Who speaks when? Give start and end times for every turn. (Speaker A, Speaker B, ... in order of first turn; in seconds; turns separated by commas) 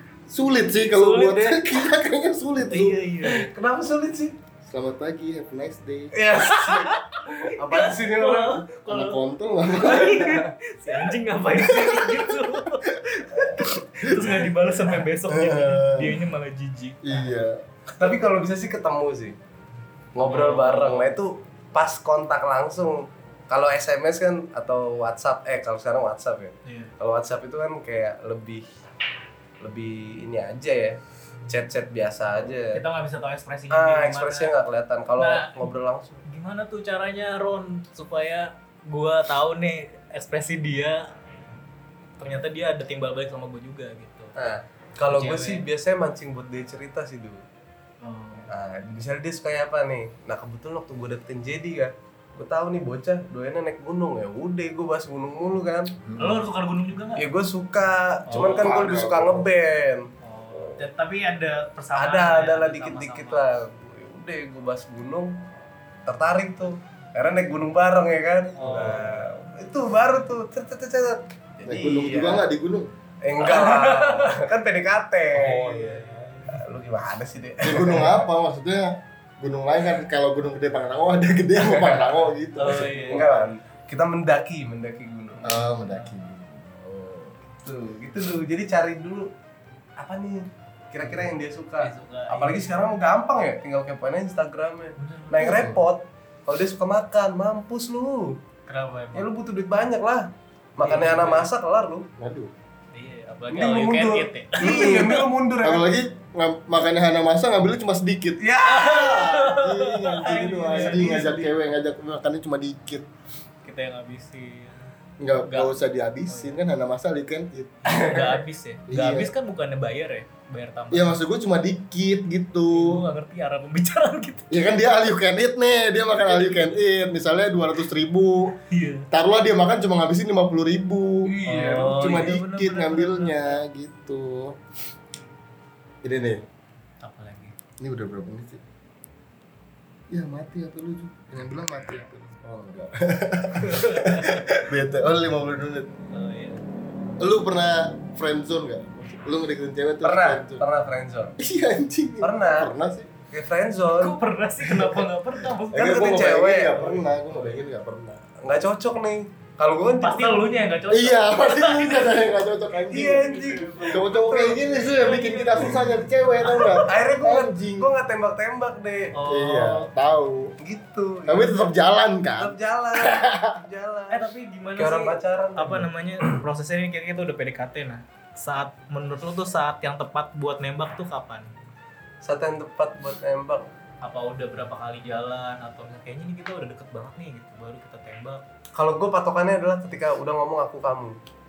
Speaker A: 0.3-3.0, Speaker B: 0.8-1.6, Speaker B: 2.6-3.5, Speaker C: 3.2-4.3, Speaker A: 4.6-6.1, Speaker C: 6.1-8.7, Speaker B: 6.4-9.2, Speaker A: 8.9-10.3, Speaker B: 9.7-17.3, Speaker C: 10.2-10.5, Speaker A: 11.5-14.4, Speaker A: 15.3-16.2, Speaker A: 17.0-17.6, Speaker C: 18.0-19.4, Speaker C: 20.1-28.6, Speaker B: 20.2-21.1, Speaker B: 26.6-26.9, Speaker C: 29.6-32.8, Speaker B: 32.7-34.5, Speaker C: 33.7-36.2, Speaker B: 35.2-35.6, Speaker B: 36.2-41.0, Speaker B: 42.2-44.3, Speaker C: 44.4-47.4, Speaker B: 45.1-45.6, Speaker B: 48.0-48.5, Speaker C: 48.5-56.0, Speaker A: 56.0-56.4, Speaker B: 56.2-57.2, Speaker C: 57.1-60.8, Speaker B: 58.3-58.8, Speaker A: 58.4-59.5, Speaker B: 60.2-63.4, Speaker C: 62.0-65.4, Speaker C: 66.1-72.5, Speaker B: 68.6-69.5, Speaker A: 71.6-72.9, Speaker C: 73.2-78.2, Speaker B: 73.4-74.4, Speaker B: 75.3-76.6, Speaker A: 77.6-83.5, Speaker C: 81.5-85.7, Speaker B: 82.6-83.4, Speaker A: 85.4-87.3, Speaker C: 87.6-89.3, Speaker C: 90.0-98.4, Speaker A: 91.0-91.3, Speaker B: 91.8-92.9, Speaker B: 95.0-95.7, Speaker B: 98.7-99.3, Speaker C: 99.1-102.1, Speaker B: 100.8-101.5, Speaker A: 102.2-102.5, Speaker B: 102.9-105.3, Speaker C: 103.5-105.9, Speaker A: 104.6-105.1, Speaker A: 105.6-108.5, Speaker C: 108.4-109.4, Speaker B: 108.6-111.5, Speaker A: 109.0-113.0, Speaker C: 110.2-111.4, Speaker B: 113.6-115.7, Speaker A: 115.2-117.9, Speaker B: 116.3-116.6, Speaker B: 117.8-121.2, Speaker C: 117.9-118.4, Speaker A: 118.9-119.3, Speaker A: 120.9-123.0, Speaker B: 122.7-124.5, Speaker A: 124.5-128.6, Speaker B: 128.6-129.1, Speaker A: 129.1-134.6, Speaker C: 131.3-131.9, Speaker B: 131.4-133.6, Speaker A: 136.0-136.4, Speaker B: 137.0-137.5, Speaker A: 137.8-138.6, Speaker A: 140.1-145.9, Speaker B: 143.6-144.6, Speaker B: 146.1-146.6, Speaker A: 147.2-150.6, Speaker C: 150.0-151.3, Speaker A: 151.4-153.1, Speaker C: 152.2-152.7, Speaker C: 153.3-154.2, Speaker B: 154.0-155.9, Speaker A: 155.7-158.2, Speaker C: 155.7-157.0, Speaker B: 156.7-157.7, Speaker C: 158.4-160.4, Speaker B: 160.0-166.8, Speaker A: 160.9-163.3, Speaker C: 162.9-165.2, Speaker A: 163.9-167.9, Speaker C: 166.5-169.2, Speaker B: 169.1-169.9, Speaker A: 169.2-170.5, Speaker C: 170.6-171.6, Speaker A: 171.3-173.6, Speaker C: 172.4-174.2, Speaker B: 174.1-181.5, Speaker C: 174.8-176.2, Speaker C: 182.2-183.7, Speaker B: 184.0-188.4, Speaker C: 188.7-191.2